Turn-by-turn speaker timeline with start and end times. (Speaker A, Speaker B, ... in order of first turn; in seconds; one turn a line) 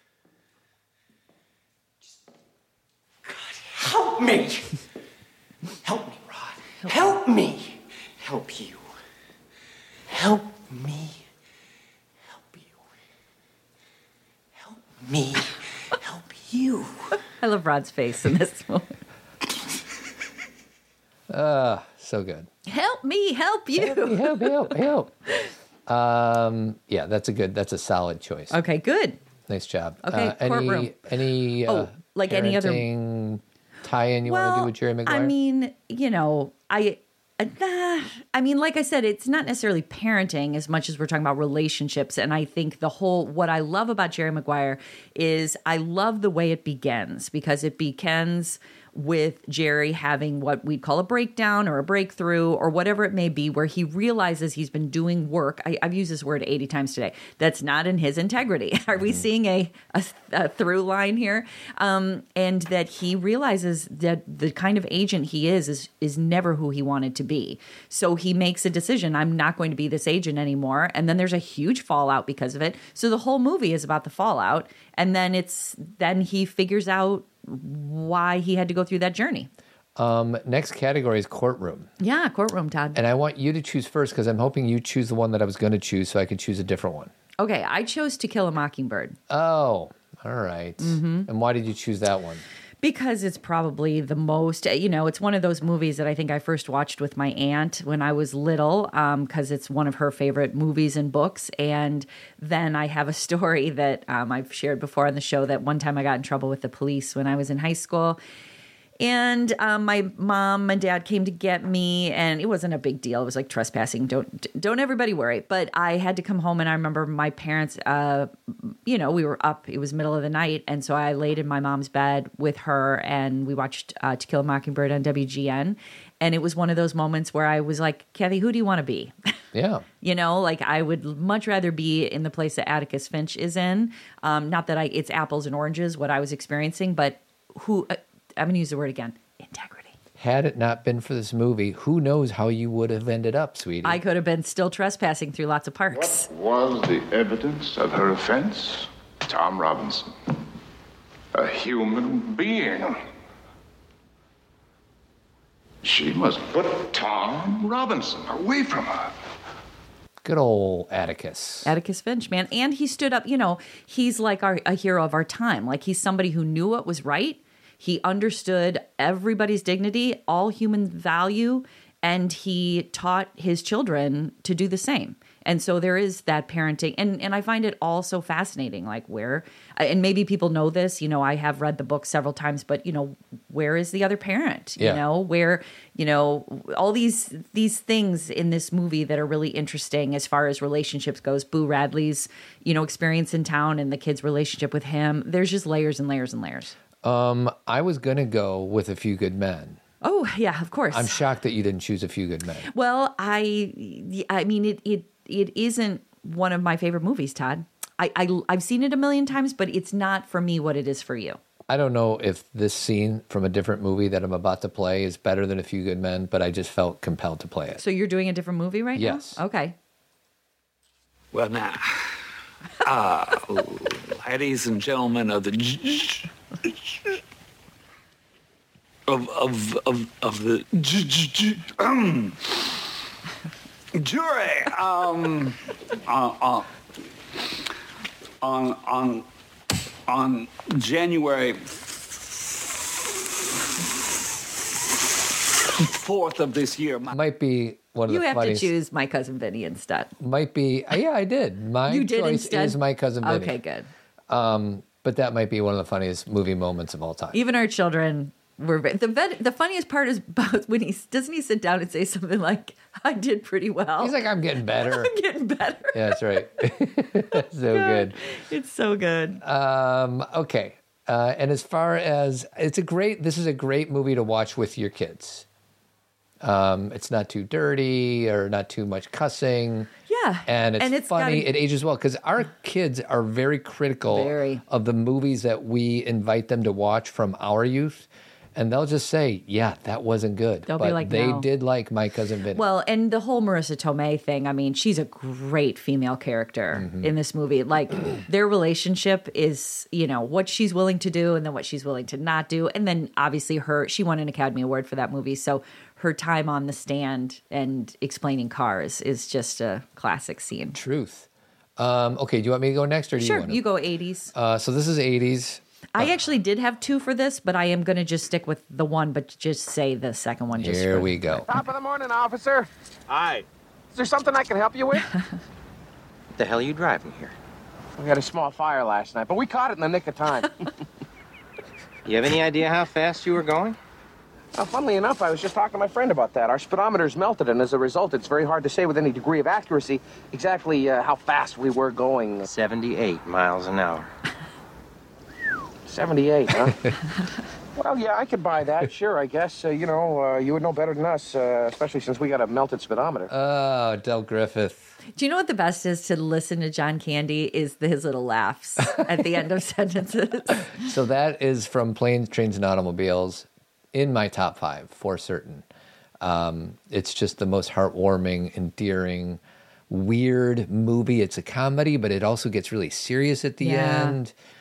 Speaker A: 3.2-4.8
Speaker A: 5.8-8.8
Speaker A: 10.1-11.2
Speaker A: 14.6-16.9
Speaker B: 17.2-18.9
Speaker C: 21.3-22.5
Speaker B: 22.7-24.7
Speaker C: 23.8-25.1
Speaker C: 25.9-28.6
Speaker B: 28.5-29.2
Speaker C: 29.5-35.3
Speaker B: 30.0-30.9
Speaker B: 31.7-32.8
Speaker B: 34.2-79.5
Speaker C: 80.0-81.9
Speaker B: 82.0-83.0
Speaker C: 82.9-87.1
Speaker B: 87.4-89.2
Speaker C: 89.3-92.4
Speaker B: 90.8-91.3
Speaker B: 92.8-108.2
Speaker B: 109.0-129.1
Speaker C: 129.5-129.8
Speaker B: 130.0-139.9
Speaker C: 140.2-144.0
Speaker B: 143.8-146.3
Speaker D: 145.9-150.1
Speaker D: 151.3-153.0
Speaker D: 155.8-159.1
Speaker C: 160.2-161.7
Speaker B: 161.6-196.7
Speaker C: 197.0-199.8
Speaker B: 200.0-201.1
Speaker C: 200.9-202.7
Speaker B: 202.7-211.4
Speaker C: 211.7-217.8
Speaker B: 217.8-219.7
Speaker C: 218.9-219.4
Speaker E: 221.3-222.1
Speaker E: 222.8-227.1
Speaker E: 229.1-232.7
Speaker E: 233.9-236.7
Speaker E: 238.4-239.2
Speaker E: 240.1-241.6
Speaker E: 245.8-247.1
Speaker C: 247.1-248.7
Speaker B: 248.1-250.1
Speaker C: 250.2-253.6
Speaker B: 251.9-253.9
Speaker C: 254.3-257.4
Speaker B: 257.3-264.1
Speaker C: 264.0-265.1
Speaker B: 264.8-266.2
Speaker C: 265.9-268.2
Speaker B: 267.7-269.4
Speaker C: 269.4-275.4
Speaker C: 276.4-279.9
Speaker B: 280.1-281.5
Speaker C: 280.5-292.6
Speaker B: 284.1-284.6
Speaker B: 290.7-291.4
Speaker B: 292.5-310.8
Speaker C: 296.7-297.1
Speaker C: 310.7-313.6
Speaker B: 313.2-314.3
Speaker C: 314.3-316.1
Speaker B: 315.9-321.4
Speaker C: 320.5-321.5
Speaker F: 321.4-325.1
Speaker G: 326.3-327.3
Speaker F: 328.0-330.5
Speaker G: 332.1-333.8
Speaker F: 334.5-342.5
Speaker G: 342.4-344.1
Speaker F: 345.9-346.8
Speaker F: 347.8-353.3
Speaker C: 353.3-354.9
Speaker B: 355.1-360.7
Speaker C: 360.7-365.6
Speaker C: 366.2-374.3
Speaker B: 373.6-374.2